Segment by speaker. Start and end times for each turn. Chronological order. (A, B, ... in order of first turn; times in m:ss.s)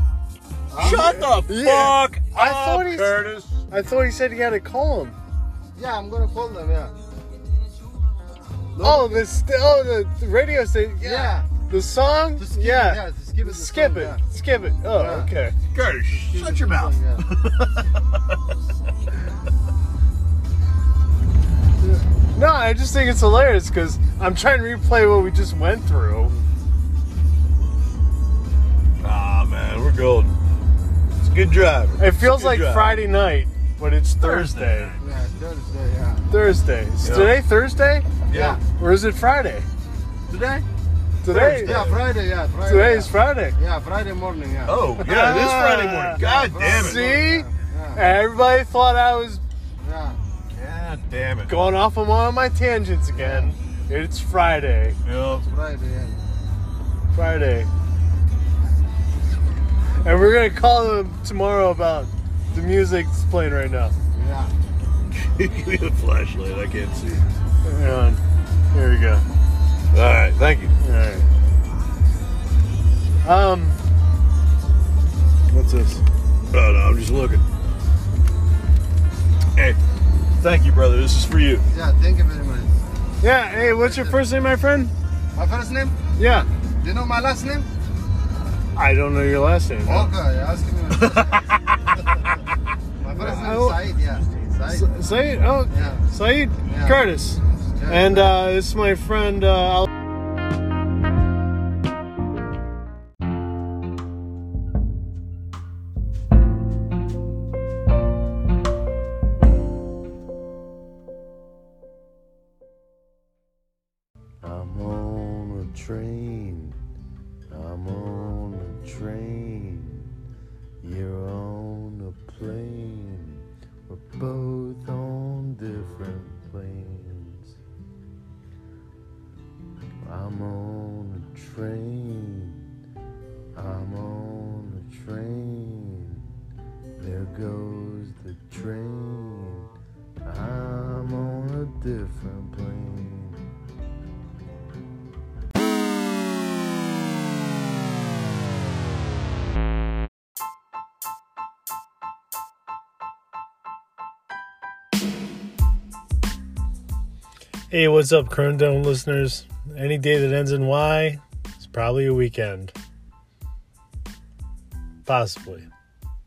0:00.7-0:01.4 A
0:00.8-0:03.6 B
0:00.8-0:05.2 C
0:05.8-0:07.0 A
0:08.8-0:09.2 A
0:08.8-0:15.6 C
0:11.0-0:11.5 A
0:12.4-0:14.2 A
0:14.9-0:15.3 A
0:15.7-0:17.8 B
0:16.1-0:17.3 A
0:22.3-0:26.4 C
0:29.0-0:30.4 B
0:31.2-0:33.0 B
0:32.0-0:35.0 C
0:34.2-0:35.0 B
0:35.0-0:36.3 A
0:36.3-0:38.1 C
0:37.0-0:37.4 B
0:38.3-0:38.6 B
0:38.3-0:38.6 A
0:38.7-0:39.7 C
0:40.3-0:40.6 B
0:41.2-0:41.8 C
0:41.3-0:45.6 A
0:41.7-0:42.0 B
0:42.6-0:43.6 C
0:44.7-0:47.2 B
0:45.0-0:49.4 C
0:46.1-0:48.0 A
0:49.8-0:50.2 A
0:50.5-0:51.6 B
0:51.5-0:55.0 C
0:53.1-0:53.5 A
0:55.0-0:55.4 B
0:55.3-0:56.2 A
0:57.1-0:57.7 C
1:00.0-1:04.0 C
1:04.1-1:04.5 A
1:05.1-1:07.3 B
1:07.6-1:08.2 C
1:08.7-1:09.3 C
1:09.9-1:10.7 B
1:10.8-1:11.3 C
1:13.2-1:13.8 C
1:15.5-1:16.0 C
1:16.5-1:17.4 B
1:20.4-1:21.7 B
1:21.7-1:22.8 A
1:23.2-1:24.9 C
1:23.6-1:24.2 A
1:25.4-1:26.0 A
1:26.2-1:26.5 C
1:26.8-1:27.7 A
1:28.8-1:30.1 C
1:29.9-1:31.5 A
1:31.0-1:31.8 B
1:33.0-1:35.2 A
1:33.1-1:33.8 C
1:34.7-1:39.9 C
1:35.7-1:36.0 A
1:36.6-1:37.0 A
1:37.8-1:38.4 A
1:54.4-1:56.8 D
1:57.5-2:00.1 D
2:00.8-2:07.6 D
2:10.0-2:12.6 D
2:13.6-2:16.3 D
2:17.0-2:19.7 D
2:20.2-2:23.4 D
2:37.7-2:42.8 C
2:45.0-2:45.7 C